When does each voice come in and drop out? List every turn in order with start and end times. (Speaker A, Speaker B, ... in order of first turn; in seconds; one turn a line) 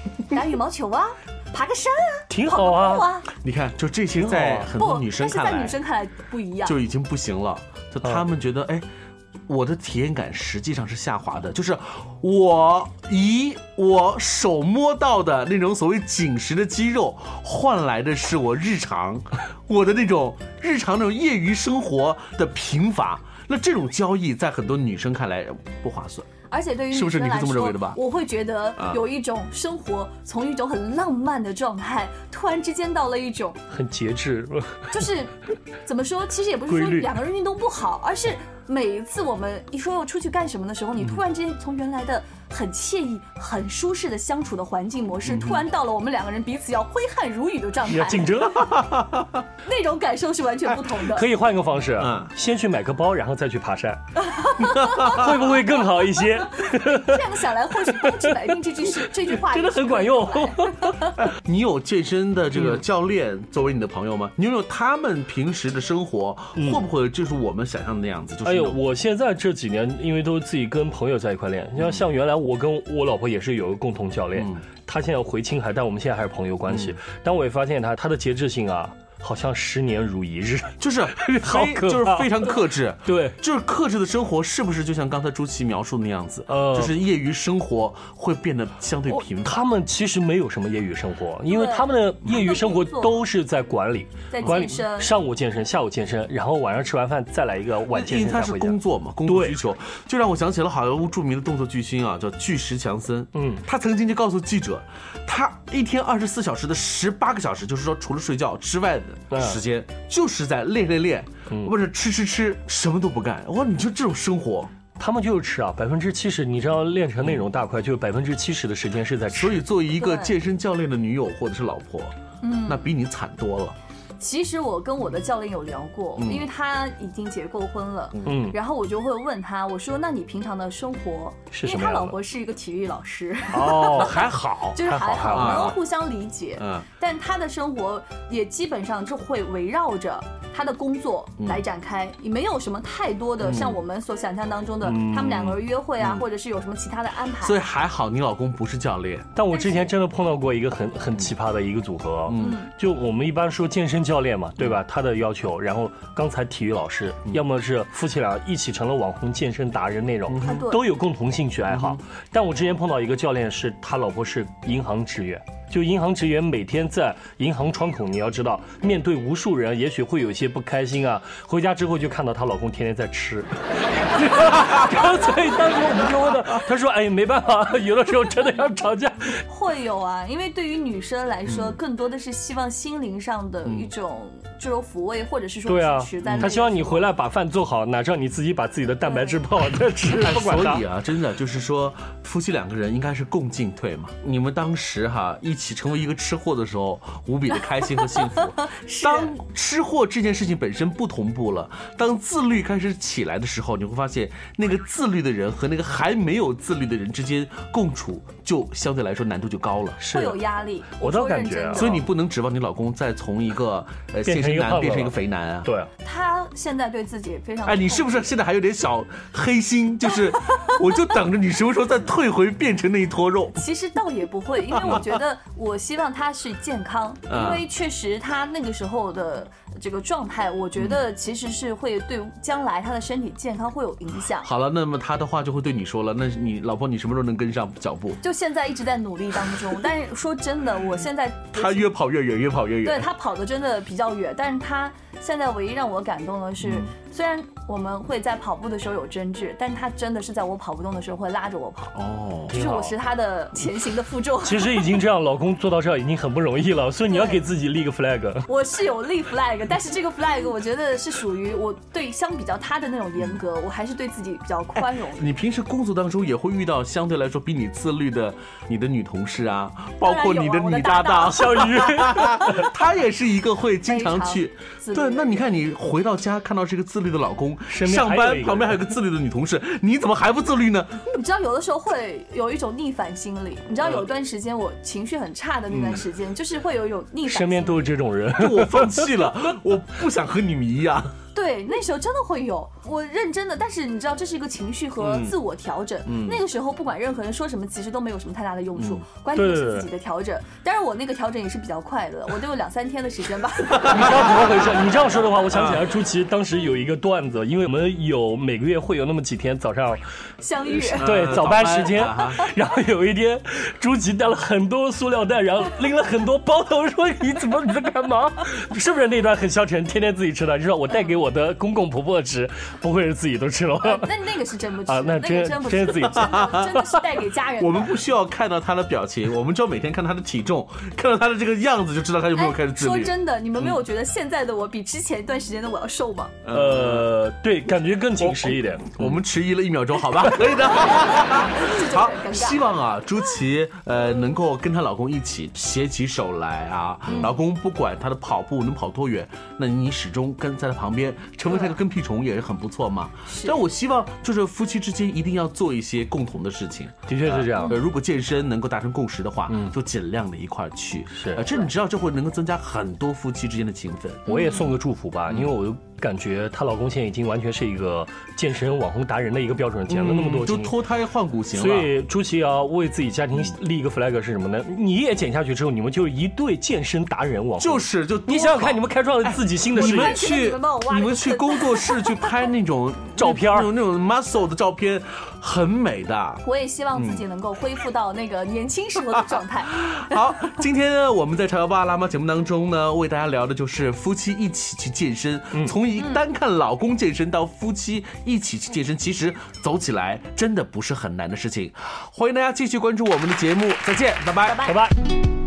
Speaker A: 0.3-3.3
Speaker B: 2.3-3.1
Speaker C: 3.3-5.8
Speaker B: 4.2-4.7
Speaker A: 4.8-6.7
Speaker C: 6.6-8.8
Speaker C: 9.5-26.3
Speaker A: 26.5-33.6
Speaker C: 26.9-28.0
Speaker B: 33.7-34.9
Speaker A: 34.9-48.6
Speaker B: 36.7-37.1
Speaker C: 45.3-45.6
Speaker B: 47.9-48.8
Speaker C: 48.5-49.4
Speaker A: 49.6-51.3
Speaker B: 51.1-54.2
Speaker C: 52.0-52.3
Speaker A: 54.2-61.1
Speaker C: 54.6-55.3
Speaker B: 54.8-61.0
Speaker C: 61.1-68.8
Speaker B: 62.5-62.8
Speaker B: 66.5-66.8
Speaker B: 68.4-83.4
Speaker C: 74.3-74.6
Speaker C: 76.7-76.9
Speaker C: 80.8-89.6
Speaker B: 86.5-87.0
Speaker B: 89.1-99.6
Speaker A: 91.5-93.2
Speaker A: 94.3-95.1
Speaker C: 97.9-114.7
Speaker B: 103.3-103.6
Speaker B: 109.3-109.6
Speaker B: 115.0-119.7
Speaker C: 119.3-122.1
Speaker A: 120.0-120.3
Speaker A: 122.4-122.9
Speaker C: 122.7-123.8
Speaker A: 124.2-134.2
Speaker C: 126.2-126.5
Speaker B: 128.2-128.6
Speaker B: 131.5-132.2
Speaker B: 133.5-135.8
Speaker C: 133.6-135.8
Speaker A: 134.7-147.6
Speaker C: 136.6-136.8
Speaker C: 143.4-143.8
Speaker B: 144.8-145.6
Speaker C: 146.0-146.2
Speaker C: 147.4-149.3
Speaker B: 149.3-179.4
Speaker A: 149.5-149.9
Speaker C: 152.3-152.6
Speaker A: 152.3-152.7
Speaker C: 160.3-160.7
Speaker A: 160.4-160.8
Speaker C: 161.7-162.0
Speaker A: 179.5-187.1
Speaker C: 181.5-181.8
Speaker B: 185.7-190.8
Speaker C: 186.2-186.5
Speaker A: 189.1-189.4
Speaker C: 190.1-210.0
Speaker A: 198.1-199.3
Speaker B: 210.0-210.4
Speaker A: 210.1-212.1
Speaker B: 211.0-212.0
Speaker C: 211.8-215.7
Speaker B: 214.2-215.9
Speaker A: 216.0-218.3
Speaker C: 217.7-223.6
Speaker A: 223.6-234.5
Speaker C: 227.3-227.7
Speaker C: 234.4-238.2
Speaker A: 238.2-241.9
Speaker C: 241.5-243.1
Speaker A: 242.8-252.0
Speaker C: 246.6-246.9
Speaker C: 251.9-252.6
Speaker B: 252.5-252.9
Speaker A: 252.5-254.8
Speaker B: 254.4-258.5
Speaker A: 257.1-257.4
Speaker A: 258.5-265.2
Speaker C: 264.8-281.1
Speaker A: 270.0-272.5
Speaker B: 271.3-272.7
Speaker A: 273.9-275.5
Speaker B: 277.7-278.9
Speaker A: 281.1-287.9
Speaker C: 285.7-286.0
Speaker B: 287.2-289.2
Speaker C: 288.4-291.1
Speaker A: 291.3-304.2
Speaker C: 295.0-295.3
Speaker C: 296.1-296.4
Speaker C: 298.8-299.0
Speaker B: 299.3-299.9
Speaker C: 303.7-304.2
Speaker B: 303.9-310.0
Speaker C: 305.5-305.8
Speaker A: 310.4-311.1
Speaker C: 310.8-312.4
Speaker B: 311.0-324.1
Speaker A: 320.9-321.1
Speaker A: 323.8-327.9
Speaker B: 324.9-326.8
Speaker C: 326.1-326.6
Speaker C: 327.6-333.8
Speaker A: 332.3-336.4
Speaker C: 336.4-337.1
Speaker B: 336.5-339.2
Speaker C: 338.2-364.4
Speaker A: 340.7-342.6
Speaker A: 347.1-347.3
Speaker A: 351.5-351.8
Speaker A: 353.2-353.6
Speaker B: 357.1-357.8
Speaker B: 359.5-359.7
Speaker B: 361.1-361.5
Speaker A: 364.3-364.7
Speaker B: 364.3-370.7
Speaker C: 369.9-371.9
Speaker B: 371.5-380.2
Speaker C: 377.6-386.4
Speaker A: 379.8-382.2
Speaker B: 383.1-383.7
Speaker A: 386.4-390.1
Speaker C: 386.9-387.2
Speaker C: 389.8-404.6
Speaker A: 404.4-404.8
Speaker B: 404.6-404.9